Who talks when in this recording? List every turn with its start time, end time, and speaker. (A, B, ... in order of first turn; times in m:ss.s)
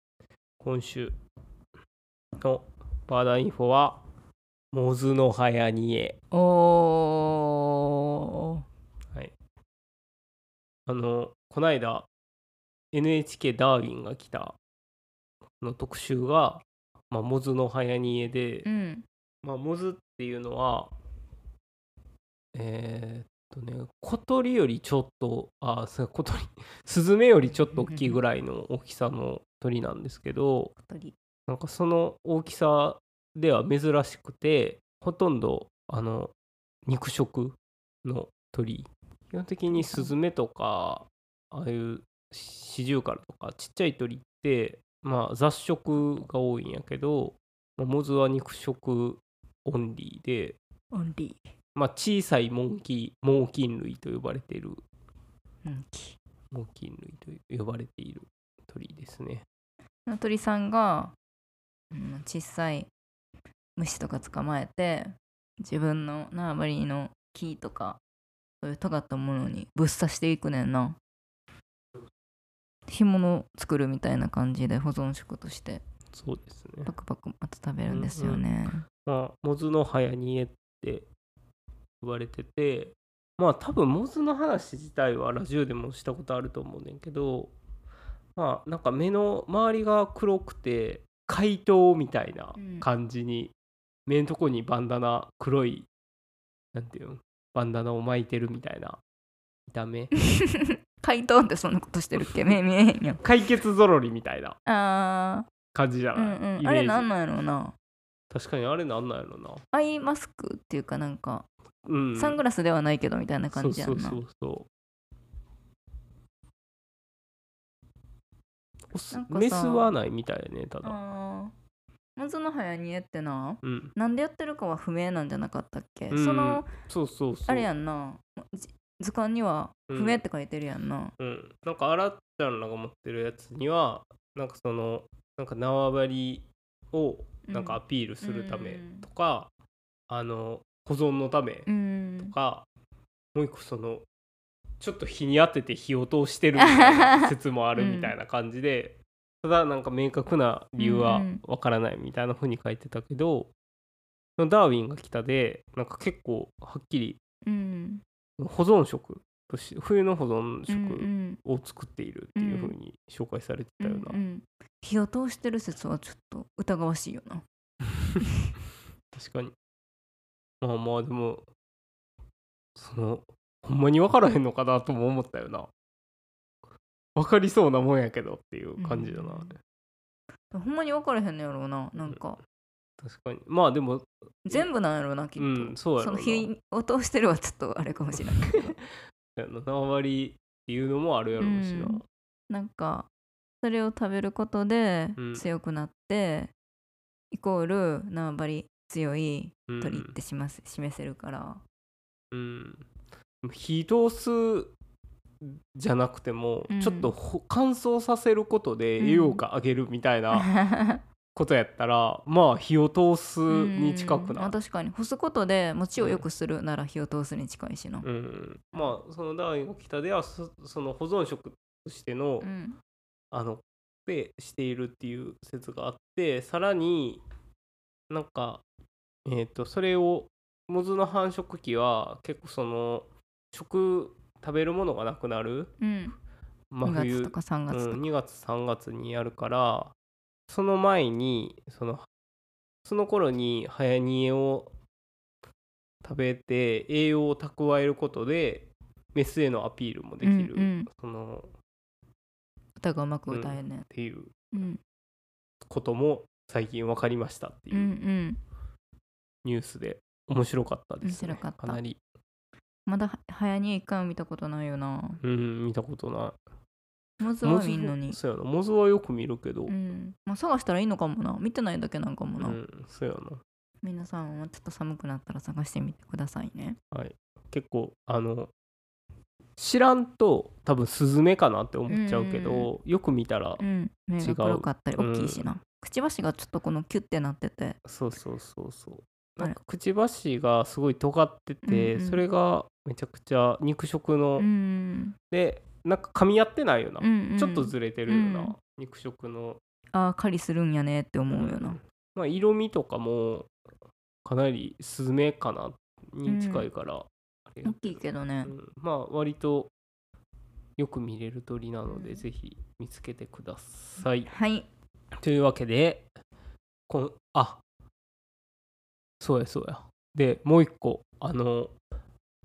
0:00.6-0:01.2 A
0:02.4-0:04.0 A
0:04.7-0:06.2 A
0:06.3-0:08.6 B
0:10.8-0:12.1 A
0:12.9-0:14.6 A
0:15.6-0:18.6 A
0:18.6-0:19.0 B
0:19.4-0:20.9 A
0:22.5-0:30.7 A
0:27.5-0:28.2 B
0:30.8-0:31.2 B
0:31.5-0:36.3 A
0:36.8-0:50.6 A
0:39.7-0:40.1 B
0:50.9-0:51.4 B
0:51.7-0:54.8 A
0:55.6-0:56.2 B
0:56.5-0:59.4 A
1:00.0-1:01.1 B
1:01.9-1:02.9 B
1:03.8-1:08.0 B
1:08.6-1:11.0 B
1:12.9-1:15.8 B
1:16.1-1:16.9 A
1:16.8-1:18.8 B
1:17.9-1:18.4 A
1:19.0-1:21.1 A
1:22.0-1:27.5 A
1:28.4-1:33.5 A
1:32.6-1:32.9 B
1:34.0-1:35.9 A
1:36.7-1:39.0 A
1:39.7-1:40.1 A
1:40.3-1:43.2 B
1:43.2-1:44.6 A
1:44.6-1:45.5 B
1:45.7-1:47.1 A
1:46.1-1:47.7 B
1:48.3-1:49.6 A
1:49.7-1:51.5 B
1:51.8-1:52.4 A
1:52.2-1:54.2 B
1:53.5-1:54.7 A
1:58.9-2:01.0 A
1:59.1-1:59.9 B
2:00.8-2:01.5 B
2:02.2-2:06.7 B
2:03.6-2:03.9 A
2:06.1-2:07.7 A
2:07.5-2:11.1 B
2:09.9-2:10.2 A
2:11.2-2:19.5 A
2:17.5-2:19.1 B
2:20.1-2:21.7 A
2:21.7-2:22.3 B
2:22.2-2:22.7 A
2:23.3-2:24.0 A
2:24.8-2:33.5 A
2:26.6-2:28.1 B
2:30.8-2:31.4 B
2:34.4-2:37.2 A
2:37.4-2:38.0 B
2:38.4-2:44.2 A
2:40.7-2:41.4 B
2:42.4-2:42.7 B
2:43.8-2:47.4 B
2:49.1-2:49.5 A
2:50.6-2:51.4 A
2:52.7-2:55.7 A
2:57.2-2:59.6 A
2:58.8-2:59.5 B
3:00.5-3:02.4 B
3:03.0-3:04.7 A
3:04.4-3:08.8 B
3:05.4-3:06.5 A
3:08.2-3:08.8 A
3:09.4-3:12.0 A
3:11.4-3:13.1 B
3:13.6-3:16.5 B
3:15.2-3:15.4 A
3:17.3-3:21.6 B
3:19.7-3:20.2 A
3:22.3-3:22.9 A
3:23.4-3:24.7 A
3:25.4-3:30.5 A
3:26.7-3:27.1 B
3:29.0-3:29.4 B
3:30.3-3:31.0 B
3:31.3-3:34.5 A
3:33.5-3:38.0 B
3:36.0-3:36.2 A
3:38.0-3:42.5 A
3:42.4-3:42.8 B
3:43.3-3:47.2 A
3:48.1-3:48.6 A
3:49.2-3:55.7 A
3:55.8-3:56.2 B
3:56.7-3:59.9 A
3:56.8-3:58.0 B
4:00.5-4:02.0 A
4:02.8-4:04.7 A
4:06.0-4:11.5 A
4:10.2-4:10.9 B
4:12.8-4:13.8 B
4:13.3-4:14.3 A
4:14.5-4:14.8 B
4:15.6-4:17.9 A
4:17.7-4:18.4 B
4:19.4-4:22.0 A
4:21.0-4:21.8 B
4:22.8-4:25.2 B
4:25.2-4:26.4 A
4:27.2-4:28.2 B
4:27.4-4:29.7 A
4:29.7-4:32.6 B
4:32.4-4:33.4 A
4:33.8-4:36.8 B
4:36.9-4:38.5 A
4:39.6-4:43.6 A
4:41.9-4:42.7 B
4:43.6-4:47.8 B
4:44.2-4:45.5 A
4:47.8-4:54.5 A
4:51.6-4:52.2 B
4:54.4-4:55.2 B
4:55.3-4:59.6 A
4:57.0-4:58.5 B
4:59.9-5:01.8 B
5:01.3-5:03.5 A
5:04.2-5:09.7 A
5:06.2-5:06.7 B
5:07.6-5:08.5 B
5:10.8-5:14.3 A
5:11.9-5:12.2 B
5:14.3-5:14.7 B
5:15.2-5:16.1 A
5:16.9-5:17.6 A
5:19.2-5:21.7 A